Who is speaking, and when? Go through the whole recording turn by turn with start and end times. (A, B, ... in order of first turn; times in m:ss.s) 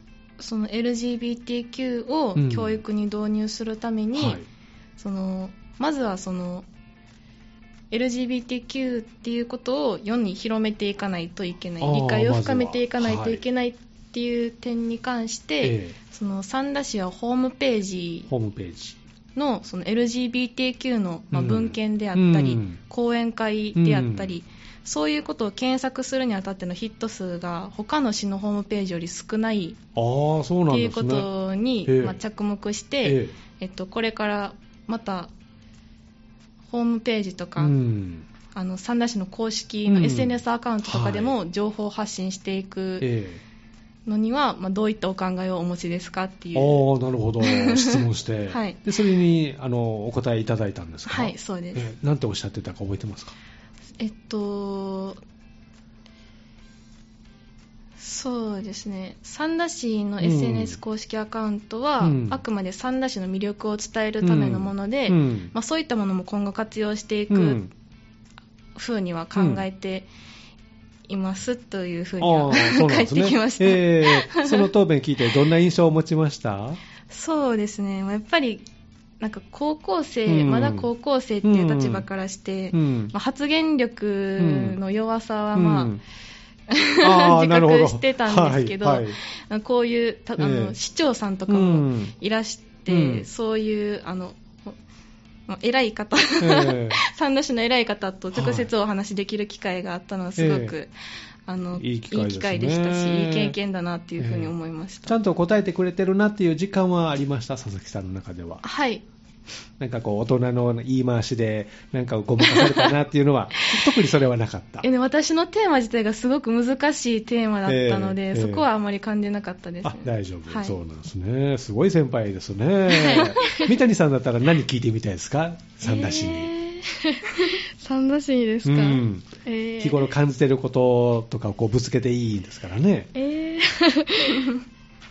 0:00.4-0:04.4 A
0:02.4-0:02.8 B
0:04.2-0:04.4 B
0:05.0-0:06.6 A
0:07.9-0:18.3 A
0:11.8-0:13.4 B
0:15.6-0:16.0 B
0:18.3-0:19.0 B
0:19.4-0:29.8 A
0:21.3-0:22.8 B
0:23.7-0:24.4 B
0:30.0-0:31.3 B
0:30.7-0:35.3 A
0:31.8-0:32.2 B
0:33.0-0:33.3 B
0:36.7-0:37.7 A
0:37.6-0:38.2 B
0:38.5-0:43.1 A
0:39.9-0:41.3 B
0:43.0-0:43.4 B
0:44.0-0:46.8 A
0:46.5-0:53.3 B
0:47.4-0:48.8 A
0:51.1-0:51.9 A
0:54.0-0:55.2 A
0:58.0-1:07.6 A
1:00.2-1:00.8 B
1:02.0-1:02.4 B
1:04.2-1:05.5 B
1:07.3-1:07.7 B
1:08.8-1:10.1 A
1:09.3-1:09.6 B
1:11.1-1:14.7 A
1:12.2-1:16.8 B
1:17.1-1:18.6 A
1:19.2-1:25.9 A
1:20.3-1:20.9 B
1:21.4-1:22.0 B
1:22.7-1:23.1 B
1:24.4-1:24.8 B
1:25.5-1:26.0 B
1:26.7-1:34.8 A
1:27.0-1:29.2 B
1:30.4-1:30.7 B
1:31.5-1:32.1 B
1:32.9-1:33.2 B
1:35.5-1:40.9 A
1:36.4-1:37.0 B
1:38.3-1:38.7 B
1:40.4-1:40.7 B
1:41.5-1:45.2 A
1:41.8-1:43.6 B
1:44.2-1:44.5 B
1:45.0-1:48.6 B
1:48.6-1:49.0 A
1:49.8-1:54.8 B
1:52.4-1:52.9 A
1:54.8-2:00.7 A
1:57.6-1:58.6 B
1:59.8-2:06.5 B
2:02.9-2:03.6 A
2:05.8-2:10.1 C
2:08.6-2:13.1 B
2:13.1-2:14.5 C